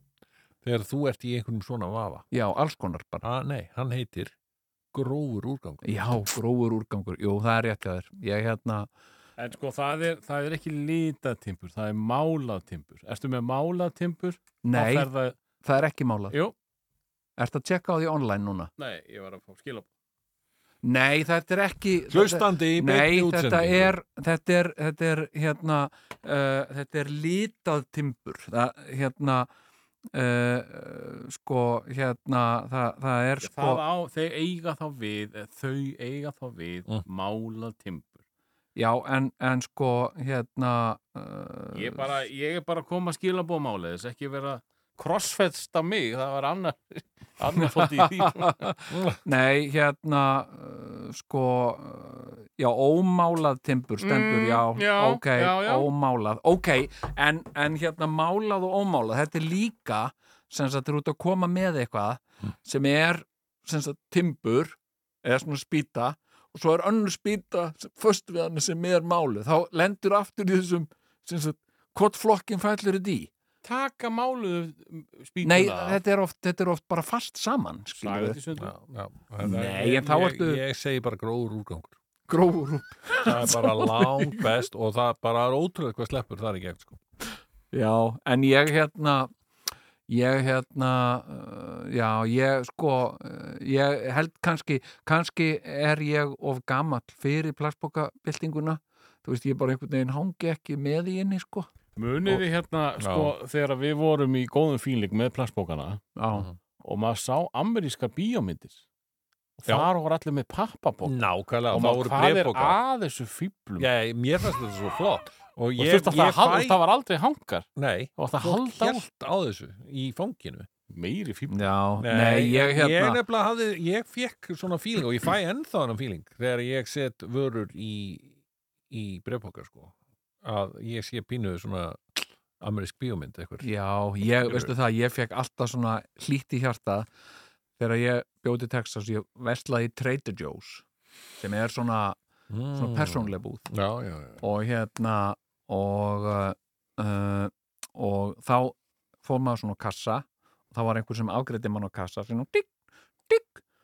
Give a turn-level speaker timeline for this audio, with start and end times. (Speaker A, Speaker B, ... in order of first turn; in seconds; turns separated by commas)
Speaker A: 0.6-2.2, Speaker B: 2.3-3.2, Speaker A: 3.2-4.3, Speaker A: 4.9-6.2, Speaker B: 5.8-8.9, Speaker C: 9.4-15.4, Speaker B: 14.6-15.1, Speaker B: 15.6-16.4, Speaker B: 17.4-18.7, Speaker C: 18.8-19.9, Speaker B: 20.8-29.5, Speaker A: 22.1-23.9, Speaker B: 30.1-33.8, Speaker C: 33.4-38.2, Speaker B: 38.8-42.1, Speaker C: 41.7-48.6, Speaker B: 47.5-73.3, Speaker A: 48.9-49.2, Speaker C: 54.0-55.9, Speaker C: 73.6-76.0, Speaker B: 75.4-78.4, Speaker C: 78.0-78.7, Speaker A: 78.5-82.0, Speaker B: 79.4-80.6, Speaker B: 82.3-84.5, Speaker A: 83.2-87.0, Speaker B: 87.7-89.3, Speaker B: 90.1-101.7, Speaker C: 102.0-106.0, Speaker A: 103.0-103.3, Speaker B: 106.2-106.5, Speaker C: 106.8-108.8, Speaker C: 109.6-113.9, Speaker A: 111.0-112.8, Speaker A: 113.8-116.8, Speaker C: 115.8-119.0, Speaker A: 117.8-120.7, Speaker C: 120.9-121.6, Speaker B: 121.5-123.2, Speaker A: 122.0-128.3, Speaker A: 128.9-133.7, Speaker B: 133.6-137.1, Speaker A: 134.4-134.7, Speaker B: 137.8-140.8, Speaker B: 141.4-142.2, Speaker A: 142.5-144.4, Speaker B: 142.7-143.7, Speaker B: 144.4-152.7, Speaker B: 153.3-153.6